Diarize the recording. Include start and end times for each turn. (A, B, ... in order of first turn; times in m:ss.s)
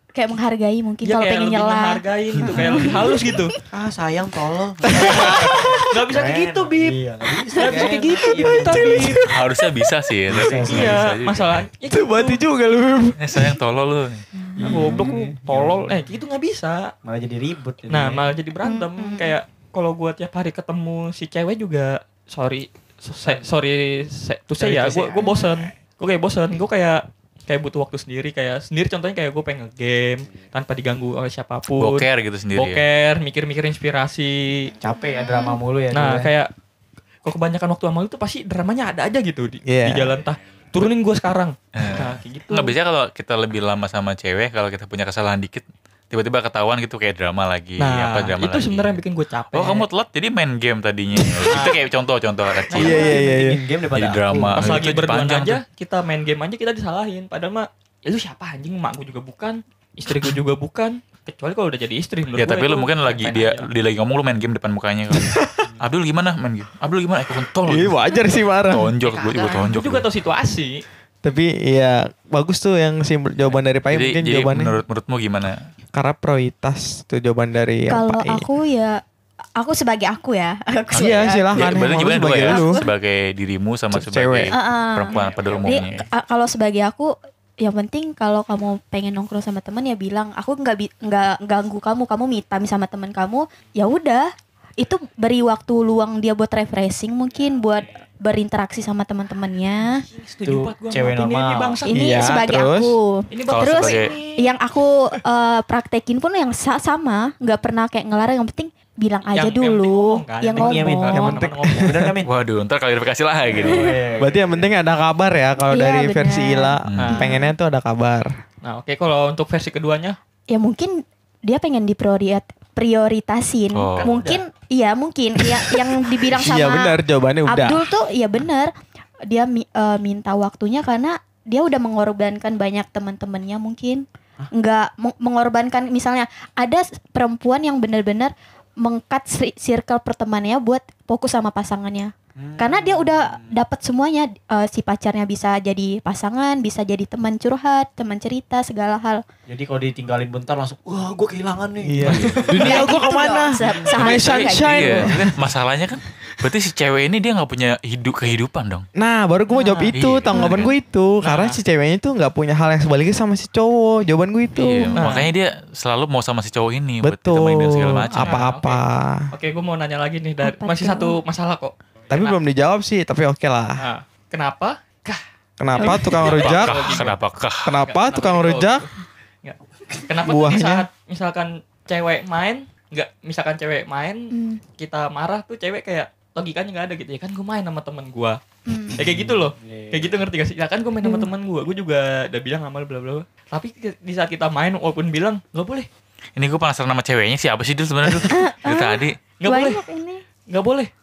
0:00.2-0:03.5 A
0:01.0-0:03.6 B
0:03.1-0:09.3 C
0:04.9-0:05.6 D
0:04.9-0:07.0 B
0:07.5-0:09.3 B
0:08.2-0:08.8 A
0:08.8-0:09.2 D
0:09.3-0:11.6 E
0:10.3-0:11.1 C
0:10.6-0:12.4 B
0:11.9-0:13.6 D
0:13.2-0:14.2 E
0:14.6-0:16.9 B
0:14.6-0:16.0 C
0:17.0-0:18.3 C
0:17.9-0:34.7 B
0:18.6-0:19.4 A
0:23.2-0:23.5 C
0:24.6-0:25.8 C
0:25.2-0:25.5 A
0:31.8-0:32.8 E
0:34.8-0:36.3 C
0:34.9-0:35.6 A
0:35.9-0:36.5 B
0:37.2-0:42.7 B
0:39.7-0:40.2 D
0:41.8-0:49.0 E
0:47.8-0:49.9 B
0:49.5-0:53.1 E
0:51.5-0:51.8 B
0:52.7-0:53.2 B
0:52.8-0:53.6 D
0:52.8-0:54.9 C
0:53.9-0:55.6 E
0:54.5-1:03.7 B
1:02.4-1:08.0 E
1:05.1-1:05.5 D
1:07.7-1:08.9 D
1:08.7-1:10.1 E
1:09.0-1:09.7 A
1:09.6-1:10.8 B
1:11.2-1:14.8 D
1:13.9-1:15.5 E
1:15.9-1:18.5 D
1:17.9-1:19.0 A
1:19.6-1:22.9 A
1:20.9-1:22.8 D
1:20.9-1:26.0 E
1:23.9-1:24.6 D
1:24.5-1:40.0 A
1:25.1-1:26.1 C
1:40.0-1:42.4 B
1:40.4-1:41.9 C
1:41.9-1:51.4 A
1:41.9-1:43.0 D
1:43.3-1:44.6 B
1:43.5-1:44.1 E
1:49.3-1:52.0 B
1:50.6-1:52.3 C
1:51.2-1:52.1 D
1:52.2-1:54.0 E
1:53.4-1:54.7 C
1:54.2-1:58.3 D
1:55.7-1:57.5 A
1:56.9-1:57.2 E
1:57.0-1:57.3 B
1:58.6-2:00.2 B
2:00.5-2:00.9 A
2:01.5-2:08.7 A
2:03.7-2:04.1 E
2:04.0-2:04.4 C
2:06.2-2:07.8 D
2:09.3-2:29.2 A
2:22.4-2:23.6 C
2:29.5-2:34.3 C
2:31.8-2:35.3 D
2:32.0-2:32.6 E
2:32.6-2:35.2 A
2:34.5-2:38.9 E
2:39.0-2:45.2 D
2:39.6-2:40.7 A
2:39.9-2:40.7 E
2:41.2-2:41.6 B
2:44.6-2:48.4 E
2:44.9-2:45.3 B
2:47.0-2:49.3 D
2:48.1-2:52.4 B
2:50.4-2:51.2 A
2:52.1-2:53.8 D
2:53.8-2:55.2 B
2:55.6-2:57.1 D
2:55.7-2:57.2 B
2:55.8-2:56.2 A
2:56.2-2:57.8 E
2:57.6-2:58.8 D
2:57.8-2:58.9 B
2:59.4-3:08.4 B
3:00.2-3:00.9 D
3:04.3-3:04.6 A
3:08.7-3:09.0 A
3:09.0-3:15.9 B
3:09.0-3:10.2 C
3:11.0-3:11.3 A
3:16.4-3:19.2 E
3:18.3-3:20.2 A
3:19.4-3:19.8 B
3:20.5-3:20.9 B